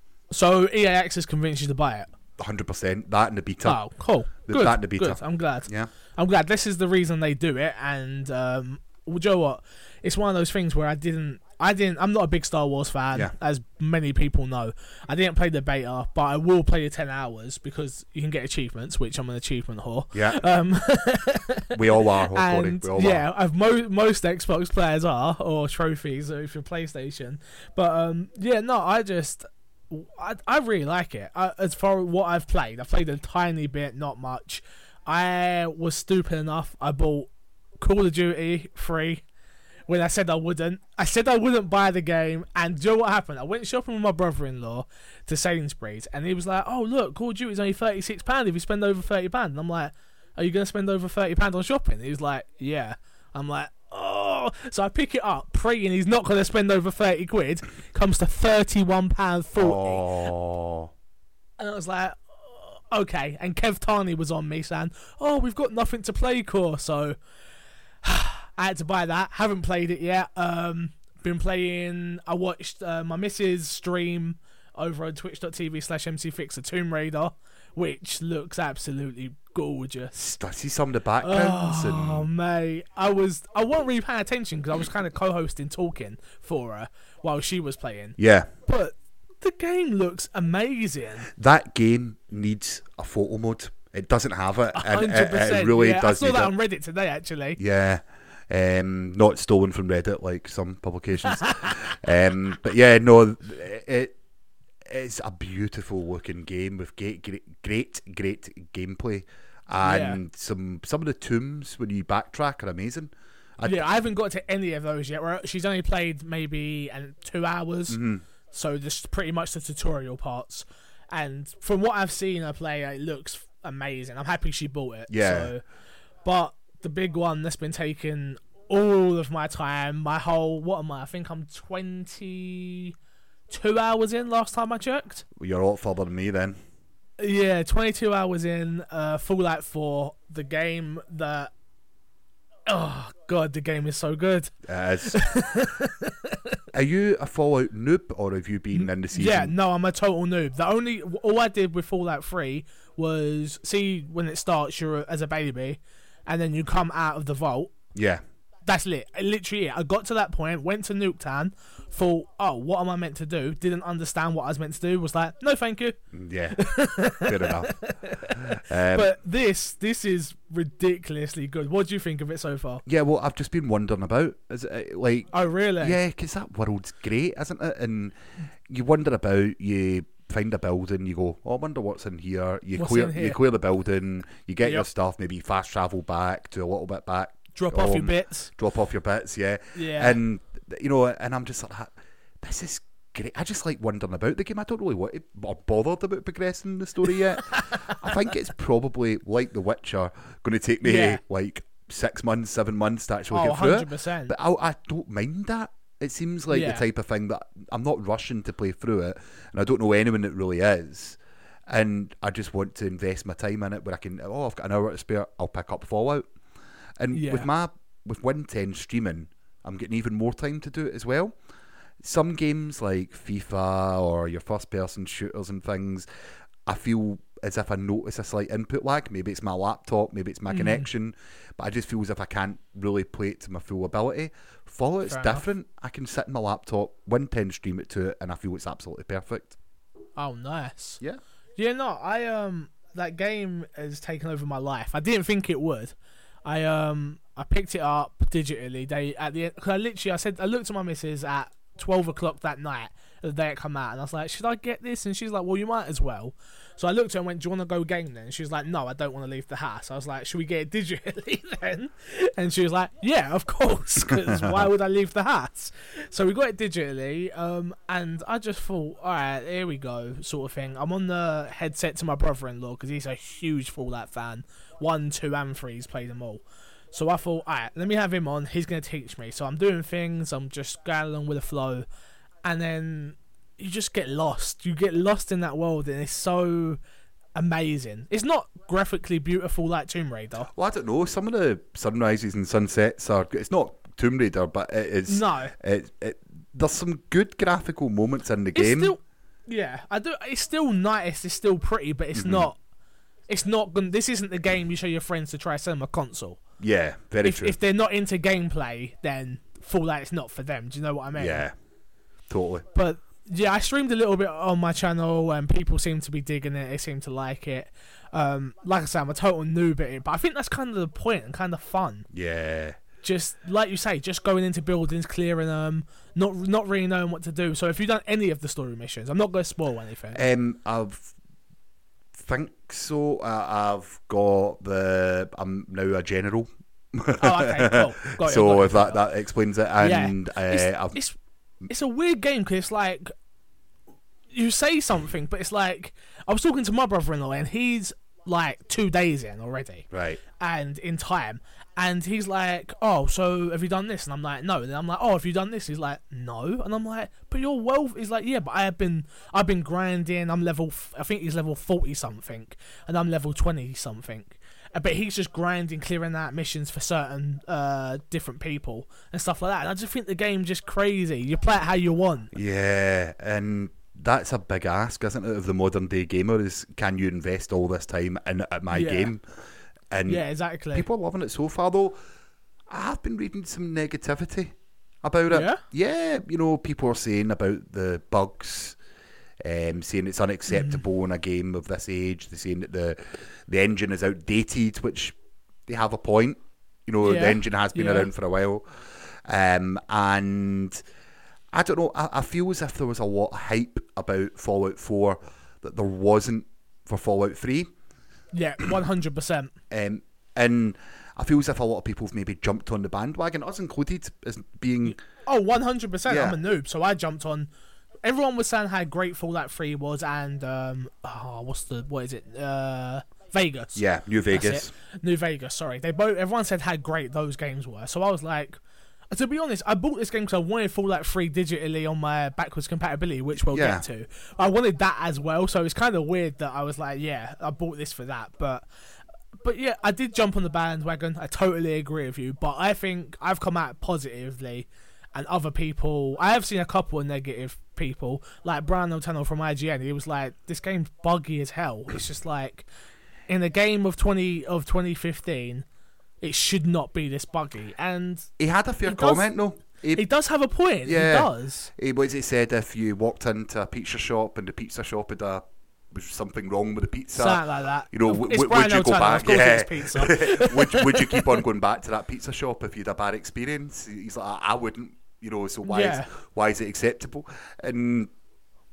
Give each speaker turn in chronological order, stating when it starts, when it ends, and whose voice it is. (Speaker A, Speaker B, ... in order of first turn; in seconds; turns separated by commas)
Speaker A: 0.3-2.1, Speaker B: 2.4-3.9, Speaker A: 3.6-21.8, Speaker B: 4.5-5.9, Speaker B: 20.1-20.4, Speaker B: 21.7-23.2, Speaker A: 22.3-39.2, Speaker A: 39.9-60.0, Speaker B: 59.6-60.9, Speaker A: 61.6-67.2, Speaker A: 68.0-80.2, Speaker B: 80.1-82.3, Speaker A: 81.2-91.3, Speaker B: 88.2-88.5, Speaker B: 91.4-96.5, Speaker A: 94.7-97.6, Speaker B: 97.6-104.2, Speaker A: 101.2-102.0, Speaker B: 104.8-113.9, Speaker A: 109.8-110.2, Speaker A: 113.6-125.6, Speaker B: 117.9-118.2, Speaker B: 125.1-125.5, Speaker A: 126.2-132.9, Speaker A: 133.5-135.2, Speaker B: 135.4-136.6, Speaker A: 137.2-141.5, Speaker A: 142.7-144.5, Speaker B: 144.7-145.2, Speaker A: 145.1-146.6, Speaker B: 146.7-149.5, Speaker A: 148.7-157.8, Speaker B: 157.9-158.2, Speaker A: 158.7-166.0, Speaker B: 166.1-166.6, Speaker A: 166.5-172.8, Speaker B: 167.2-167.8, Speaker B: 168.4-169.1, Speaker B: 172.8-216.3, Speaker A: 175.3-176.0, Speaker A: 182.8-183.4, Speaker A: 187.6-188.5, Speaker A: 189.8-190.2, Speaker A: 197.4-198.2, Speaker A: 200.8-201.2, Speaker A: 203.3-204.3, Speaker A: 206.5-206.8, Speaker B: 217.0-221.4, Speaker A: 217.1-217.5, Speaker B: 222.0-226.1, Speaker B: 226.7-239.6, Speaker A: 230.5-230.9, Speaker A: 235.1-235.5, Speaker A: 240.2-241.0, Speaker A: 241.6-281.9, Speaker B: 264.1-264.7, Speaker A: 282.4-286.8, Speaker A: 287.4-290.5, Speaker B: 290.5-298.9, Speaker A: 295.1-295.5, Speaker A: 298.6-302.6, Speaker B: 302.2-302.5, Speaker A: 303.3-306.4, Speaker B: 306.6-307.6, Speaker A: 307.2-311.5, Speaker B: 311.1-311.5, Speaker B: 312.3-312.6, Speaker A: 312.7-322.1, Speaker B: 322.1-322.8, Speaker A: 323.0-330.2, Speaker B: 330.1-331.1, Speaker B: 332.1-341.0, Speaker A: 337.2-339.0, Speaker A: 339.8-341.2, Speaker A: 341.7-343.1, Speaker A: 344.3-349.9, Speaker B: 349.9-350.2, Speaker A: 350.4-372.3, Speaker B: 372.3-379.2, Speaker A: 378.7-379.1, Speaker B: 379.9-382.0, Speaker A: 380.1-380.9, Speaker B: 382.7-388.8, Speaker A: 385.3-385.6, Speaker B: 389.4-400.8, Speaker A: 390.5-390.8, Speaker A: 397.0-398.1, Speaker B: 401.5-407.7, Speaker A: 408.3-409.5, Speaker B: 409.7-415.0, Speaker A: 414.9-417.5, Speaker B: 416.1-416.4, Speaker A: 418.0-428.6, Speaker B: 423.8-424.7, Speaker A: 429.1-438.6, Speaker B: 433.5-433.8, Speaker A: 439.4-452.7, Speaker A: 453.3-455.6, Speaker A: 456.2-458.3, Speaker B: 458.4-460.1, Speaker A: 458.9-459.3, Speaker A: 459.9-461.7, Speaker B: 460.9-478.1, Speaker A: 467.1-471.4, Speaker A: 475.6-476.1